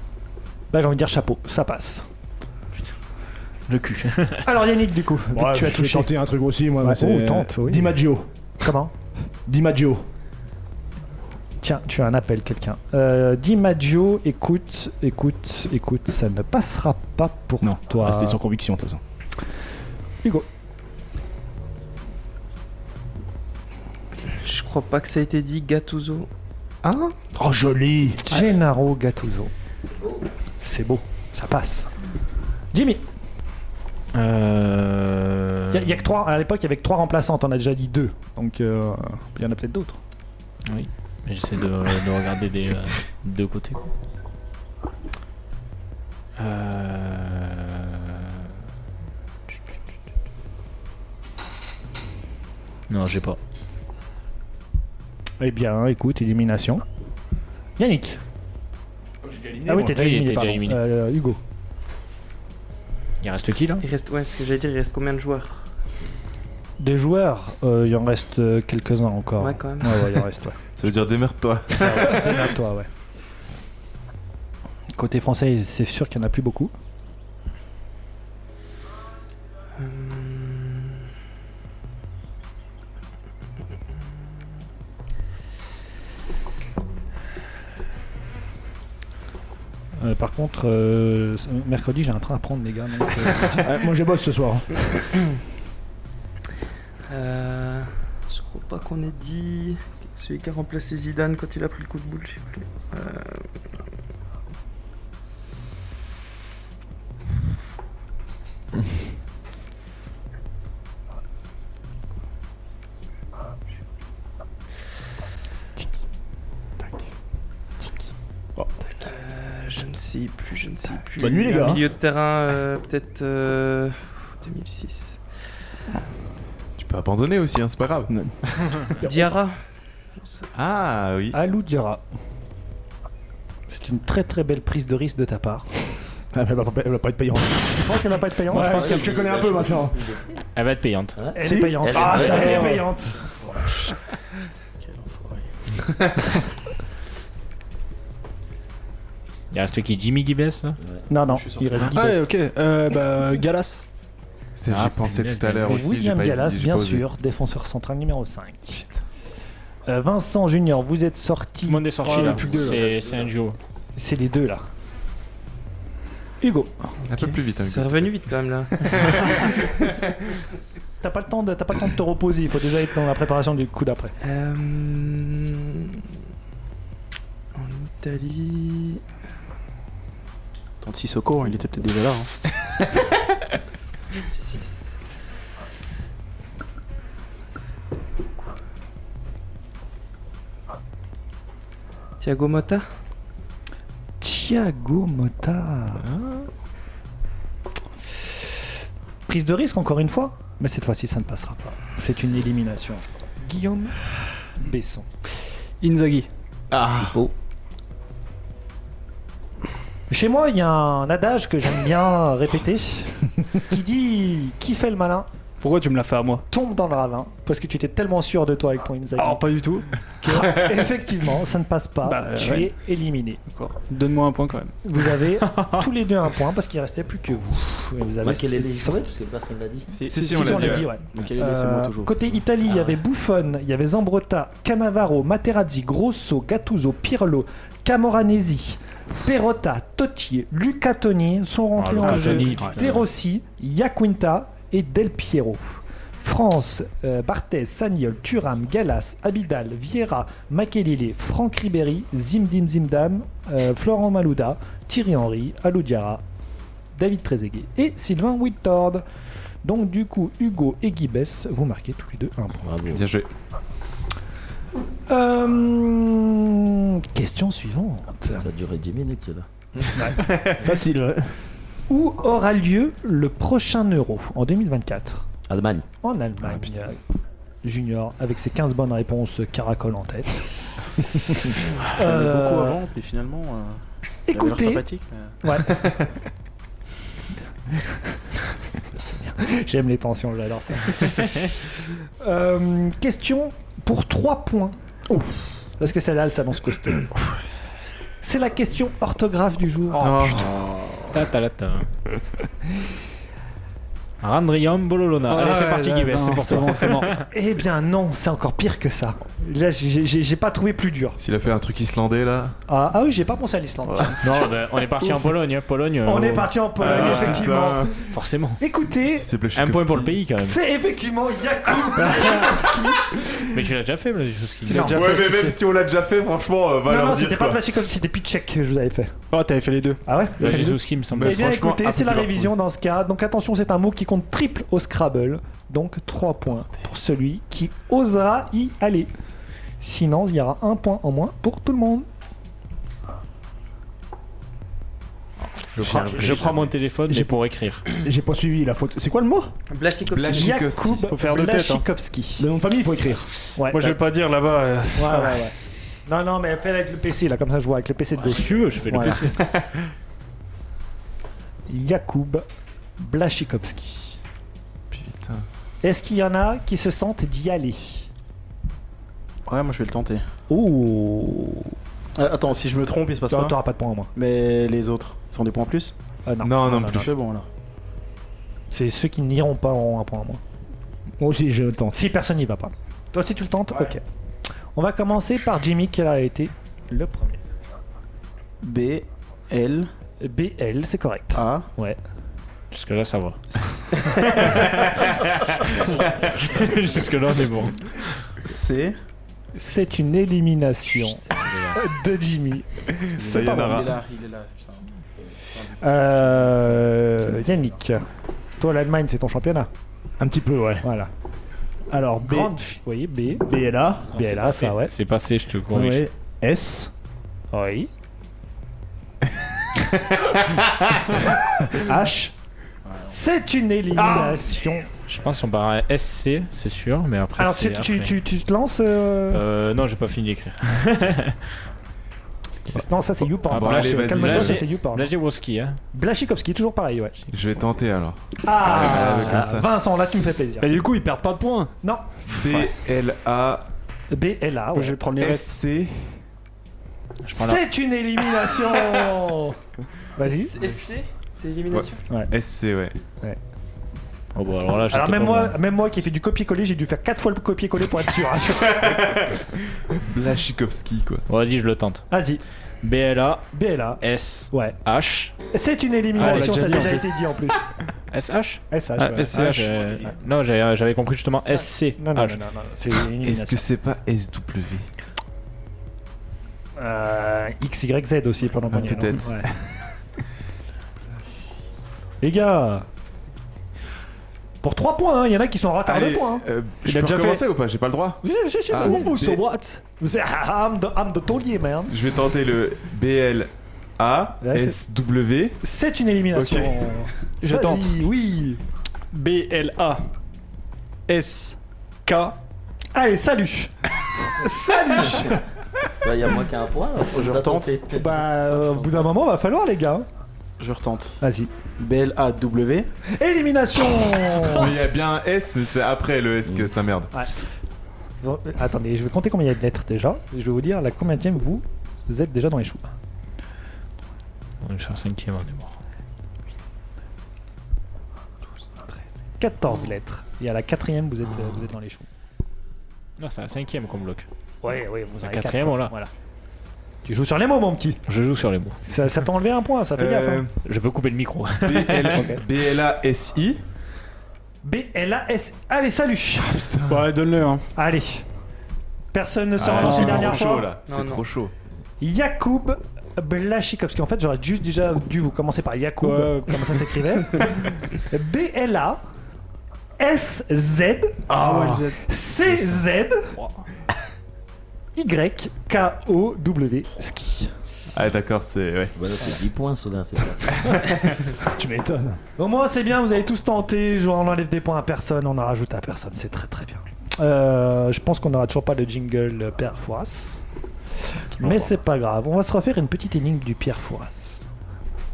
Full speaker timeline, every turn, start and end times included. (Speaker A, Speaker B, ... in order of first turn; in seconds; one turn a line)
Speaker A: 0.7-2.0
Speaker B: 3.7-4.4
Speaker A: 4.4-6.1
Speaker C: 5.3-8.3
Speaker A: 6.8-8.0
Speaker A: 8.6-8.9
Speaker C: 9.4-10.0
Speaker A: 11.6-18.4
Speaker C: 17.6-19.0
Speaker D: 24.3-26.3
Speaker C: 27.1-28.2
Speaker A: 28.3-29.5
Speaker A: 30.6-31.9
Speaker A: 32.7-33.0
Speaker B: 34.1-36.1
Speaker A: 35.7-40.0
Speaker B: 40.6-43.9
Speaker B: 46.4-48.5
Speaker B: 52.9-53.4
Speaker A: 55.4-56.8
Speaker A: 57.8-58.2
Speaker C: 59.2-60.0
Speaker A: 59.7-61.4
Speaker B: 59.8-60.8
Speaker B: 63.2-63.8
Speaker D: 63.8-65.6
Speaker A: 66.8-70.6
Speaker D: 69.4-70.1
Speaker E: 70.8-72.5
Speaker A: 71.7-72.9
Speaker A: 74.9-76.7
Speaker D: 79.8-81.0
Speaker A: 90.0-93.6
Speaker C: 93.6-94.7
Speaker D: 97.1-103.5
Speaker D: 119.0-125.2
Speaker C: 121.1-121.8
Speaker E: 126.8-128.9
Speaker C: 128.1-128.3
Speaker D: 129.0-129.6
Speaker D: 130.2-130.4
Speaker E: 130.5-131.4
Speaker A: 131.3-132.0
Speaker A: 133.7-135.7
Speaker C: 136.3-140.0
Speaker A: 137.8-139.1
Speaker F: 138.5-140.4
Speaker B: 140.5-141.2
Speaker F: 141.2-142.9
Speaker A: 141.3-143.2
Speaker C: 141.4-142.8
Speaker G: 144.8-145.4
Speaker B: 149.5-150.8
Speaker F: 150.8-151.1
Speaker A: 151.1-152.3
Speaker G: 151.3-151.9
Speaker H: 151.8-153.8
Speaker E: 154.6-157.0
Speaker B: 154.7-155.8
Speaker A: 155.7-158.8
Speaker A: 159.9-162.4
Speaker B: 161.7-163.6
Speaker H: 162.0-163.0
Speaker F: 162.5-163.3
Speaker A: 164.0-164.7
Speaker A: 166.4-166.7
Speaker E: 167.0-170.0
Speaker D: 167.1-169.4
Speaker A: 171.0-174.1
Speaker D: 174.2-176.1
Speaker D: 177.5-179.0
Speaker G: 180.8-182.3
Speaker D: 184.2-185.0
Speaker D: 192.2-192.9
Speaker A: 194.2-196.1
Speaker E: 196.0-196.5
Speaker A: 199.3-205.1
Speaker H: 205.8-206.3
Speaker E: 206.7-207.2
Speaker A: 210.1-215.3
Speaker H: 215.6-216.4
Speaker A: 216.5-219.4
Speaker H: 219.2-219.9
Speaker A: 220.2-223.7
Speaker H: 222.0-222.7
Speaker H: 223.6-224.8
Speaker A: 224.8-229.0
Speaker F: 228.2-229.9
Speaker G: 229.9-232.1
Speaker E: 230.1-231.0
Speaker A: 230.1-256.2
Speaker F: 232.7-233.0
Speaker B: 241.7-243.1
Speaker C: 242.0-242.4
Speaker A: 256.9-259.0
Speaker A: 259.6-262.7
Speaker F: 262.6-263.1
Speaker E: 262.9-263.3
Speaker A: 265.1-268.5
Speaker F: 268.3-269.5
Speaker A: 269.9-270.2
Speaker E: 270.2-270.6
Speaker C: 270.6-271.3
Speaker A: 271.9-275.2
Speaker F: 275.5-275.9
Speaker A: 276.0-277.0
Speaker A: 277.6-280.4
Speaker G: 281.9-285.4
Speaker A: 281.9-282.8
Speaker A: 284.3-284.8
Speaker A: 285.4-285.8
Speaker E: 285.7-285.9
Speaker A: 289.0-291.5
Speaker A: 292.2-297.1
Speaker A: 298.2-300.5
Speaker E: 299.9-301.0
Speaker B: 301.1-301.9
Speaker B: 304.2-307.3
Speaker H: 305.3-307.2
Speaker A: 307.3-311.2
Speaker E: 311.2-312.5
Speaker A: 312.7-314.3
Speaker B: 314.2-317.5
Speaker A: 315.0-315.3
Speaker A: 316.0-318.0
Speaker E: 316.8-318.1
Speaker B: 318.1-318.6
Speaker A: 318.6-319.3
Speaker E: 319.0-320.2
Speaker B: 319.5-320.6
Speaker A: 320.4-323.1
Speaker B: 323.5-325.2
Speaker H: 324.7-325.6
Speaker A: 324.7-325.0
Speaker E: 324.8-327.7
Speaker A: 326.9-329.1
Speaker H: 329.3-330.0
Speaker A: 330.1-339.1
Speaker B: 330.4-331.6
Speaker E: 331.1-332.6
Speaker A: 339.8-342.1
Speaker B: 345.5-347.8
Speaker A: 345.9-346.5
Speaker E: 346.0-346.5
Speaker C: 347.1-347.4
Speaker C: 347.9-349.5
Speaker D: 349.7-350.6
Speaker E: 350.1-351.1
Speaker A: 350.3-352.5
Speaker H: 351.1-351.8
Speaker C: 352.4-353.3
Speaker A: 353.6-353.9
Speaker H: 353.7-355.4
Speaker A: 354.9-359.2
Speaker B: 358.2-359.5
Speaker A: 361.7-362.4
Speaker A: 363.0-364.2
Speaker E: 364.9-365.4
Speaker A: 365.8-368.1
Speaker G: 369.5-370.2
Speaker A: 370.5-371.7
Speaker G: 372.1-373.6
Speaker A: 373.3-374.1
Speaker G: 374.1-375.9
Speaker A: 376.2-377.1
Speaker E: 376.4-377.1
Speaker G: 376.8-377.4
Speaker A: 378.7-380.4
Speaker C: 381.2-382.0
Speaker A: 381.9-384.0
Speaker A: 384.7-387.4
Speaker G: 388.6-389.9
Speaker A: 390.2-392.0
Speaker G: 391.3-391.7
Speaker B: 392.7-393.4
Speaker E: 394.4-395.2
Speaker B: 394.4-394.8
Speaker B: 395.6-398.0
Speaker E: 395.8-396.4
Speaker G: 398.5-398.9
Speaker A: 399.5-403.8
Speaker B: 401.4-401.7
Speaker E: 402.9-404.0
Speaker G: 403.2-404.8
Speaker G: 405.5-406.6
Speaker A: 405.8-408.0
Speaker A: 408.6-409.7
Speaker C: 410.2-410.9
Speaker A: 410.8-411.1
Speaker C: 411.9-412.6
Speaker A: 412.2-413.5
Speaker C: 413.4-414.1
Speaker A: 414.1-414.9
Speaker B: 414.2-416.1
Speaker C: 415.7-416.9
Speaker A: 417.5-417.9
Speaker E: 420.2-420.7
Speaker C: 421.7-422.3
Speaker A: 423.1-424.9
Speaker C: 423.9-424.5
Speaker B: 425.0-428.2
Speaker A: 427.4-429.4
Speaker B: 429.3-431.4
Speaker A: 432.7-435.1
Speaker E: 433.5-434.6
Speaker B: 433.5-435.8
Speaker A: 435.9-437.2
Speaker E: 437.3-439.7
Speaker A: 438.4-440.8
Speaker H: 440.6-441.7
Speaker A: 441.8-442.6
Speaker E: 442.2-443.7
Speaker A: 444.1-445.0
Speaker H: 444.7-445.5
Speaker E: 445.1-446.2
Speaker B: 447.2-447.6
Speaker A: 447.3-449.6
Speaker A: 450.1-450.5
Speaker D: 450.2-452.0
Speaker E: 450.6-450.9
Speaker E: 451.7-452.9
Speaker B: 454.3-455.6
Speaker A: 454.9-459.1
Speaker E: 458.7-461.2
Speaker B: 461.3-462.1
Speaker A: 462.1-462.4
Speaker B: 462.8-463.5
Speaker A: 463.5-464.8
Speaker B: 464.0-465.3
Speaker A: 465.5-467.7
Speaker B: 466.1-466.9
Speaker H: 466.1-467.1
Speaker B: 468.1-472.4
Speaker A: 468.7-469.5
Speaker H: 469.0-469.8
Speaker A: 471.5-473.6
Speaker E: 473.2-474.9
Speaker A: 476.8-479.5
Speaker E: 478.7-479.8
Speaker A: 482.2-482.9
Speaker A: 484.6-486.4
Speaker E: 485.9-489.5
Speaker H: 486.8-487.4
Speaker A: 488.2-489.2
Speaker H: 488.7-489.8
Speaker A: 490.0-491.9
Speaker E: 491.9-495.6
Speaker A: 494.4-494.8
Speaker A: 495.6-498.6
Speaker E: 496.3-496.9
Speaker H: 497.4-497.9
Speaker H: 499.1-500.0
Speaker H: 501.1-502.4
Speaker A: 502.9-503.7
Speaker A: 504.4-505.4
Speaker F: 505.0-505.3
Speaker F: 506.0-509.1
Speaker G: 507.1-507.7
Speaker A: 507.9-510.1
Speaker G: 510.6-511.1
Speaker A: 511.2-511.5
Speaker G: 511.8-512.9
Speaker A: 513.2-514.8
Speaker E: 514.3-517.1
Speaker A: 518.2-522.9
Speaker B: 524.6-525.8
Speaker A: 529.4-532.1
Speaker B: 533.2-534.3
Speaker A: 534.6-536.1
Speaker B: 535.2-535.9
Speaker A: 537.0-538.0
Speaker B: 538.1-538.8
Speaker A: 538.9-540.4
Speaker E: 539.9-540.5
Speaker B: 540.6-542.3
Speaker E: 541.6-543.6
Speaker A: 542.1-542.4
Speaker A: 544.6-546.5
Speaker E: 546.4-547.1
Speaker H: 546.9-547.6
Speaker A: 547.7-548.2
Speaker A: 549.1-550.7
Speaker E: 549.6-551.5
Speaker H: 549.8-550.4
Speaker D: 550.9-551.2
Speaker A: 552.0-559.0
Speaker H: 556.0-556.8
Speaker A: 560.0-561.3
Speaker H: 561.3-562.0
Speaker E: 561.3-561.9
Speaker A: 562.0-563.2
Speaker H: 563.3-563.6
Speaker A: 565.0-567.5
Speaker E: 567.9-568.9
Speaker F: 569.0-570.8
Speaker C: 571.3-572.2
Speaker A: 572.4-580.4
Speaker A: 581.4-584.5